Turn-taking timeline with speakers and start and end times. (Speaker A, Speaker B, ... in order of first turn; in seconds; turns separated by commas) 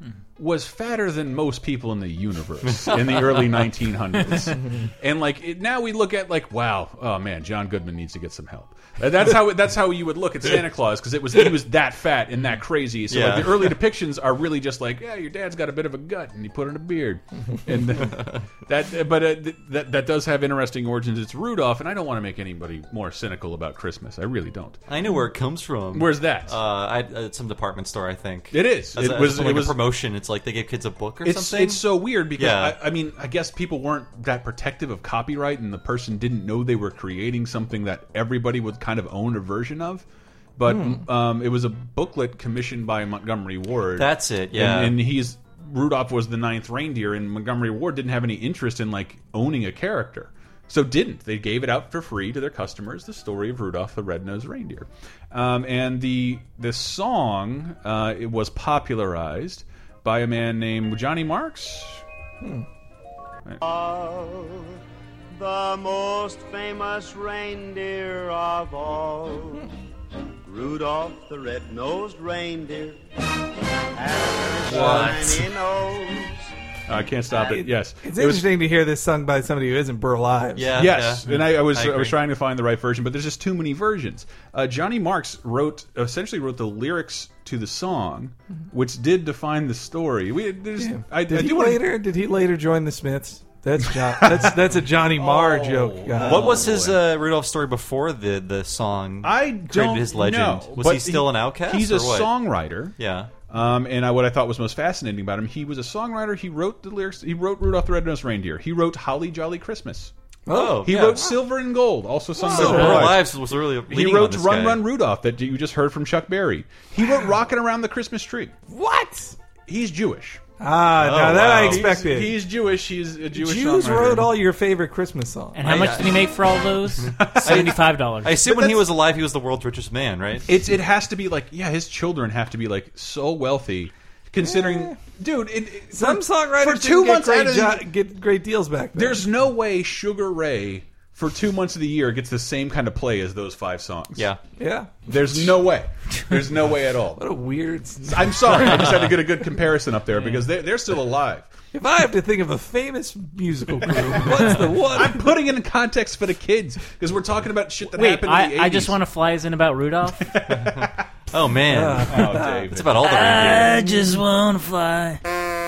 Speaker A: 0.4-24.8, Speaker B: 13.1-13.8, Speaker B: 24.9-32.8, Speaker A: 25.9-26.6, Speaker A: 28.5-29.8, Speaker A: 31.2-40.0, Speaker A: 40.6-62.0, Speaker C: 40.7-41.0, Speaker B: 44.0-45.0, Speaker D: 63.6-64.8, Speaker D: 65.3-69.7, Speaker D: 70.4-73.0, Speaker D: 74.0-76.5, Speaker A: 74.7-75.3, Speaker A: 76.9-78.5, Speaker C: 77.5-80.7, Speaker B: 80.6-82.2, Speaker A: 80.7-91.8, Speaker C: 90.8-96.7, Speaker A: 94.3-97.0, Speaker B: 96.2-102.3, Speaker A: 99.2-103.0, Speaker B: 103.0-103.3, Speaker A: 103.5-110.1, Speaker C: 110.5-111.3, Speaker B: 110.5-111.2, Speaker A: 110.8-113.3, Speaker C: 112.4-113.1, Speaker B: 112.5-114.8, Speaker A: 113.9-118.5, Speaker C: 118.7-119.4, Speaker A: 119.7-120.4, Speaker C: 120.6-122.4, Speaker B: 121.0-121.9, Speaker A: 121.2-124.3, Speaker C: 123.3-125.6, Speaker E: 125.5-128.4, Speaker B: 125.6-126.3, Speaker B: 127.0-130.5, Speaker A: 127.2-127.8, Speaker A: 128.4-128.8, Speaker A: 130.5-137.9, Speaker C: 134.4-135.0, Speaker C: 135.9-139.2, Speaker A: 138.9-144.3, Speaker C: 144.6-145.3, Speaker A: 145.1-147.2, Speaker C: 147.2-148.9, Speaker A: 148.1-151.5, Speaker C: 151.7-155.3, Speaker A: 154.0-159.0, Speaker E: 157.9-160.3, Speaker A: 160.2-161.0, Speaker B: 161.3-163.9, Speaker C: 161.7-162.6, Speaker A: 162.0-163.7, Speaker E: 163.0-165.2